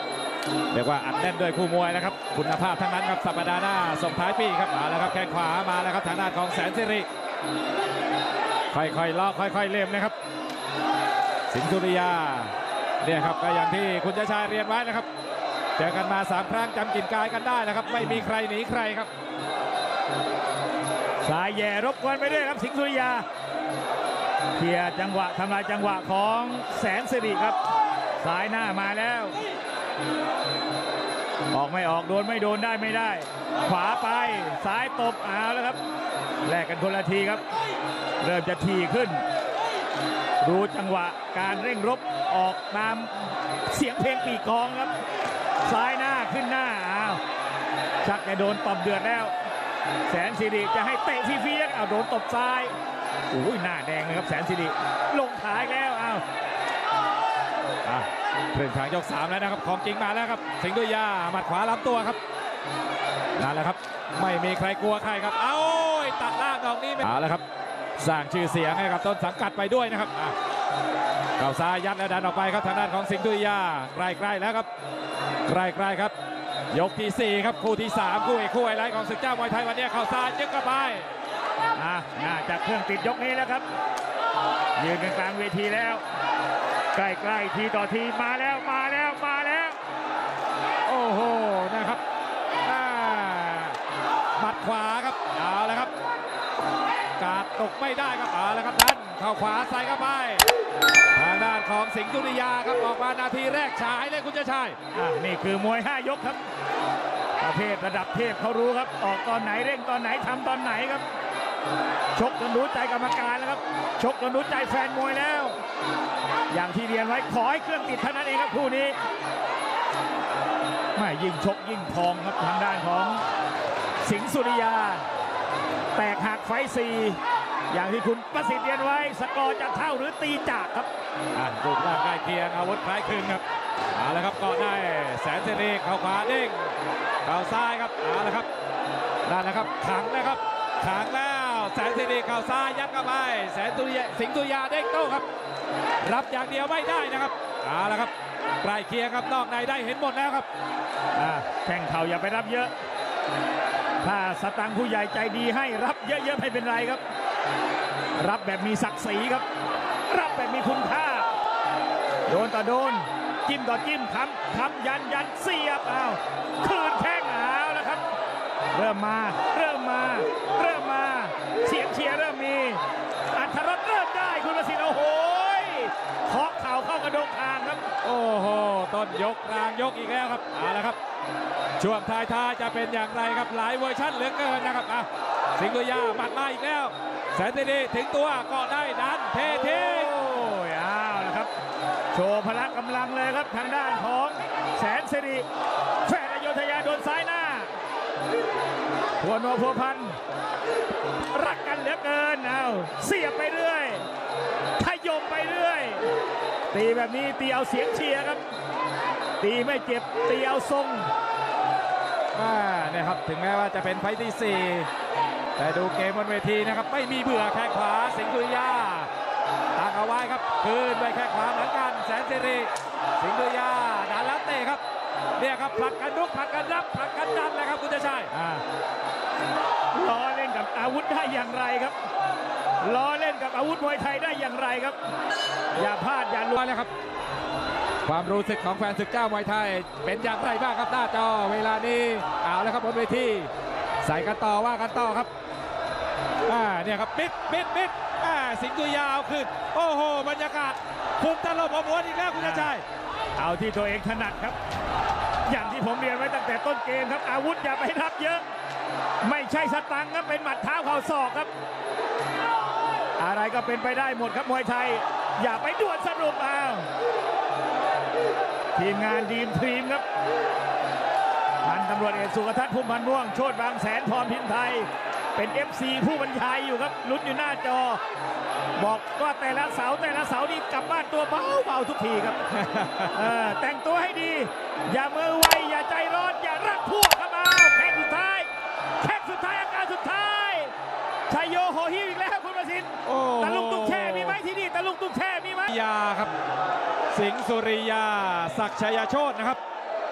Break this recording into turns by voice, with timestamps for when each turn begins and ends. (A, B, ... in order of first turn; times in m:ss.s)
0:00.7-0:07.1 A
0:08.7-0:10.1 A
0:11.5-0:15.1 A
0:15.8-0:19.1 A
0:21.2-0:23.2 B
0:24.5-0:27.6 B
0:28.2-0:29.4 B
0:31.5-0:35.8 B
0:36.4-0:37.4 B
0:38.2-0:39.2 B
0:40.4-0:44.9 B
0:45.6-0:47.2 B
0:48.0-0:49.3 B
0:50.0-0:52.8 B
0:53.3-0:56.2 B
0:57.8-1:02.2 A
1:03.4-1:07.4 A
1:08.0-1:10.4 A
1:11.4-1:14.7 A
1:15.5-1:16.1 A
1:16.7-1:21.1 A
1:21.8-1:23.6 B
1:24.8-1:26.0 B
1:26.9-1:29.8 B
1:30.8-1:32.0 A
1:32.6-1:33.8 A
1:34.4-1:35.9 A
1:37.2-1:40.4 A
1:41.2-1:44.8 A
1:44.9-1:46.4 B
1:47.4-1:51.0 B
1:52.1-1:55.6 B
1:56.5-1:59.0 B
2:00.9-2:03.2 B
2:04.0-2:05.1 B
2:05.9-2:10.9 B
2:11.3-2:13.4 A
2:13.9-2:18.5 A
2:19.2-2:25.2 A
2:26.0-2:30.5 A
2:31.2-2:32.7 B
2:34.0-2:37.0 B
2:38.2-2:39.5 B
2:40.1-2:41.3 B
2:42.3-2:48.0 B
2:48.7-2:57.9 B
2:58.0-3:01.0 A
3:01.8-3:10.2 A
3:09.5-3:11.5 B
3:12.1-3:15.5 B
3:16.0-3:17.8 B
3:19.2-3:20.2 B
3:21.3-3:24.1 B
3:24.8-3:26.1 B
3:26.7-3:28.4 B
3:29.4-3:31.1 B
3:32.3-3:34.9 A
3:35.6-3:39.1 A
3:39.8-3:44.8 A
3:45.4-3:48.3 A
3:48.3-3:48.6 B
3:49.9-3:52.0 B
3:52.8-3:55.0 B
3:55.7-3:56.6 B
3:56.6-3:56.9 A
3:58.1-4:03.5 A
4:04.0-4:05.3 A
4:06.5-4:12.8 A
4:12.4-4:12.7 B
4:13.4-4:14.6 B
4:15.5-4:18.4 B
4:19.2-4:21.5 B
4:23.2-4:26.9 B
4:28.8-4:30.0 B
4:31.6-4:38.0 B
4:38.8-4:50.7 B
4:51.3-4:55.7 B
4:53.0-4:54.4 A
4:55.7-4:56.3 A
4:57.1-4:59.6 A